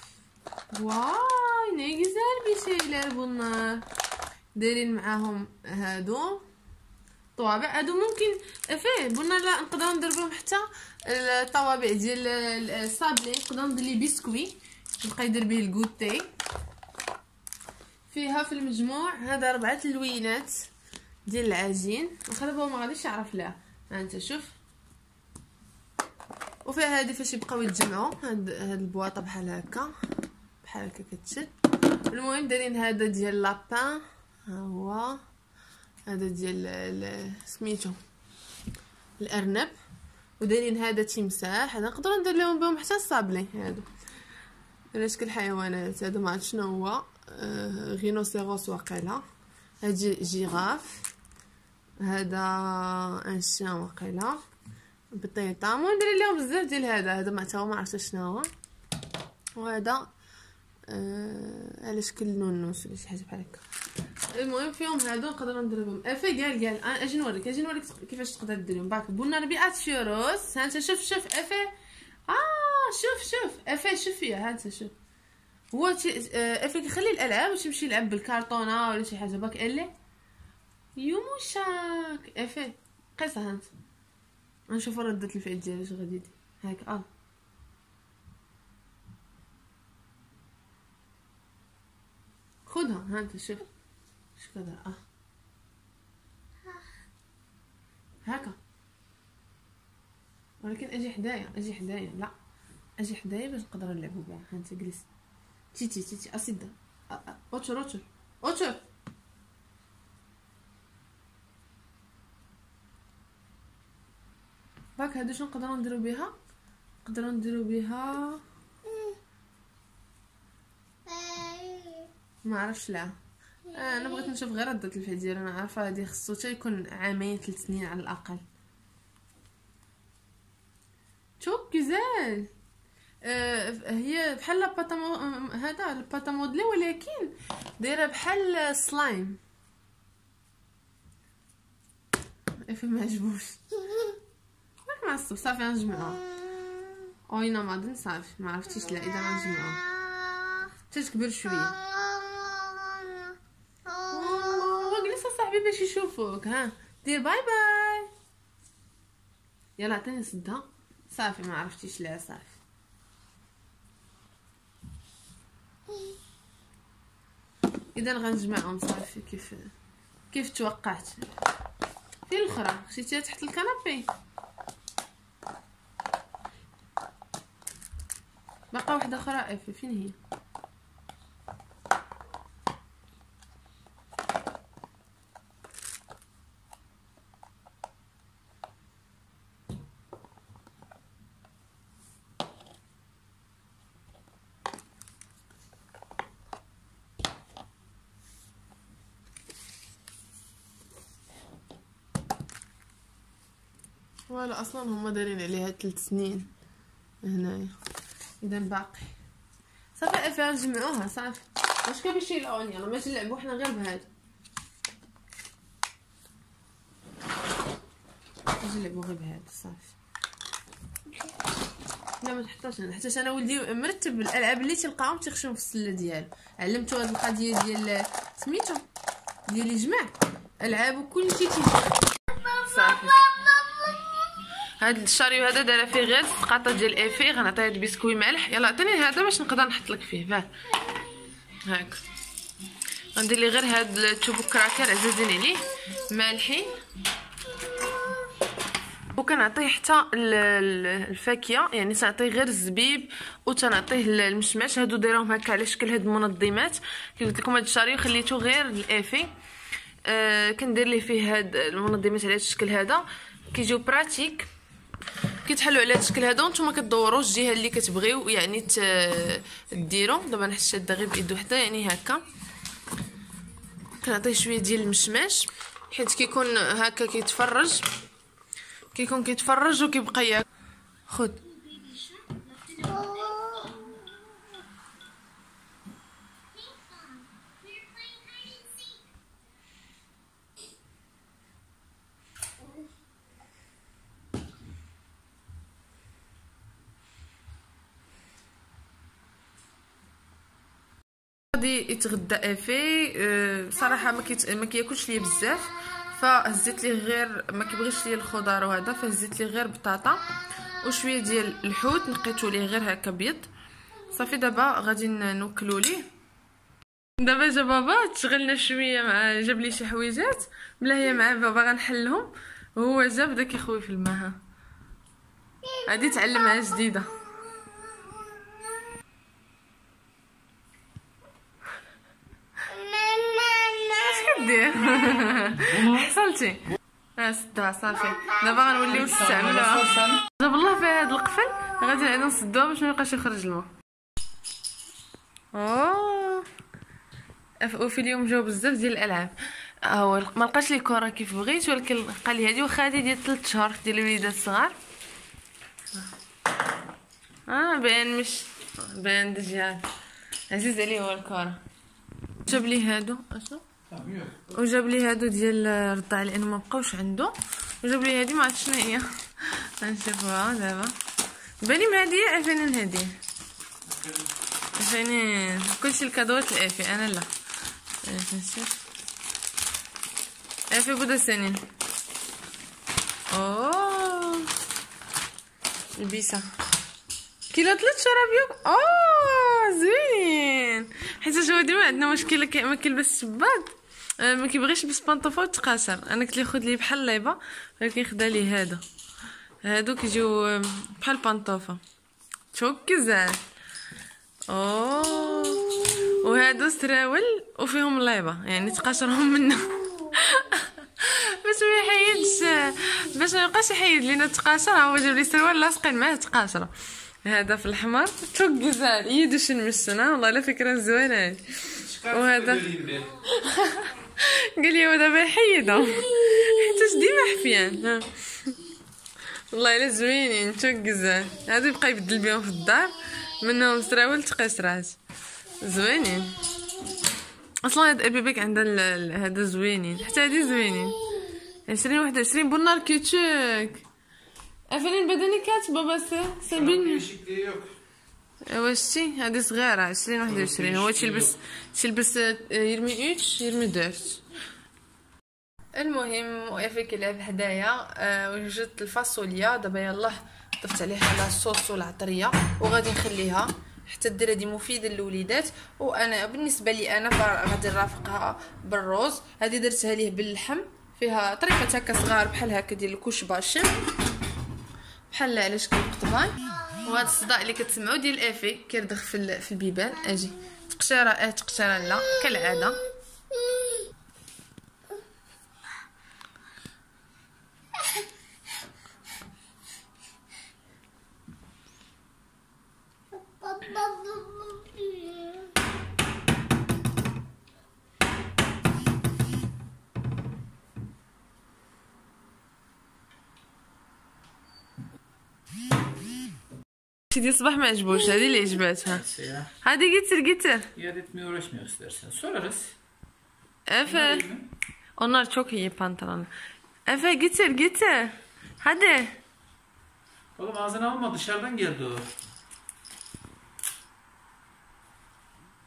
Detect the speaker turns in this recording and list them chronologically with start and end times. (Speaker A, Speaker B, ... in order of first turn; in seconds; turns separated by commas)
Speaker A: 0.7-3.8, Speaker A: 4.6-6.4, Speaker A: 7.4-16.3, Speaker A: 18.1-20.7, Speaker A: 21.3-24.6, Speaker A: 26.6-29.9, Speaker A: 30.6-31.5, Speaker A: 32.1-35.2, Speaker A: 36.1-38.0, Speaker A: 39.2-39.8, Speaker A: 40.4-43.9, Speaker A: 44.9-49.2, Speaker A: 49.8-51.1, Speaker A: 52.0-54.4, Speaker A: 55.1-58.5, Speaker A: 59.6-60.1, Speaker A: 60.9-63.6, Speaker A: 64.3-71.7, Speaker A: 72.3-74.9, Speaker A: 75.7-79.9, Speaker A: 81.0-83.7, Speaker A: 84.7-87.1, Speaker A: 92.7-93.7, Speaker A: 94.4-95.0, Speaker A: 98.3-98.6, Speaker A: 100.6-102.3, Speaker A: 103.0-105.1, Speaker A: 105.7-108.8, Speaker A: 115.0-116.3, Speaker A: 117.0-118.4, Speaker A: 122.5-123.2, Speaker A: 123.7-128.4, Speaker A: 131.4-132.5, Speaker A: 133.2-139.4, Speaker A: 142.7-144.1, Speaker A: 144.9-146.2, Speaker A: 147.3-149.8, Speaker A: 150.9-151.8, Speaker A: 154.1-158.1, Speaker A: 159.8-162.6, Speaker A: 167.9-169.7, Speaker A: 170.3-171.3, Speaker A: 172.3-174.1, Speaker A: 178.7-180.2, Speaker A: 204.3-206.5, Speaker A: 207.2-207.8, Speaker A: 208.4-209.1, Speaker A: 210.0-214.1, Speaker A: 218.6-219.9, Speaker A: 222.2-228.8, Speaker A: 229.5-232.0, Speaker A: 232.5-233.4, Speaker A: 234.8-240.5, Speaker A: 241.7-242.0, Speaker A: 243.2-246.8, Speaker A: 249.1-259.3, Speaker A: 260.1-264.5, Speaker A: 265.4-272.2, Speaker A: 274.0-277.9, Speaker A: 278.9-280.4, Speaker A: 281.1-281.5, Speaker A: 282.8-283.8, Speaker A: 301.5-310.2, Speaker A: 310.8-313.5, Speaker A: 314.1-316.1, Speaker A: 317.2-324.4, Speaker A: 325.9-327.1, Speaker A: 333.8-336.6, Speaker B: 335.7-336.1, Speaker A: 337.2-343.7, Speaker B: 338.9-340.2, Speaker A: 345.5-346.5, Speaker A: 347.6-349.3, Speaker A: 349.9-354.8, Speaker A: 357.5-359.9, Speaker A: 360.5-361.6, Speaker A: 362.5-363.6, Speaker B: 363.9-364.5, Speaker A: 364.5-370.9, Speaker A: 371.6-373.2, Speaker B: 373.9-374.3, Speaker A: 374.8-377.3, Speaker A: 378.1-378.8, Speaker A: 380.7-381.7, Speaker A: 383.3-384.5, Speaker A: 386.0-386.5, Speaker A: 387.5-398.8, Speaker A: 399.6-401.8, Speaker A: 402.5-403.4, Speaker A: 404.5-416.7, Speaker A: 417.2-422.7, Speaker B: 421.7-423.2, Speaker A: 423.2-428.6, Speaker A: 429.5-435.0, Speaker A: 435.6-436.4, Speaker A: 437.6-441.0, Speaker A: 441.7-443.9, Speaker A: 444.7-447.1, Speaker B: 446.5-447.7, Speaker A: 448.5-454.2, Speaker B: 450.2-451.3, Speaker A: 455.8-473.7, Speaker A: 475.1-482.8, Speaker A: 507.1-509.1, Speaker B: 508.9-509.5, Speaker A: 509.6-510.7, Speaker B: 510.8-512.8, Speaker A: 513.7-514.3, Speaker B: 513.9-514.5, Speaker A: 515.0-516.3, Speaker A: 516.9-519.2, Speaker B: 520.4-522.1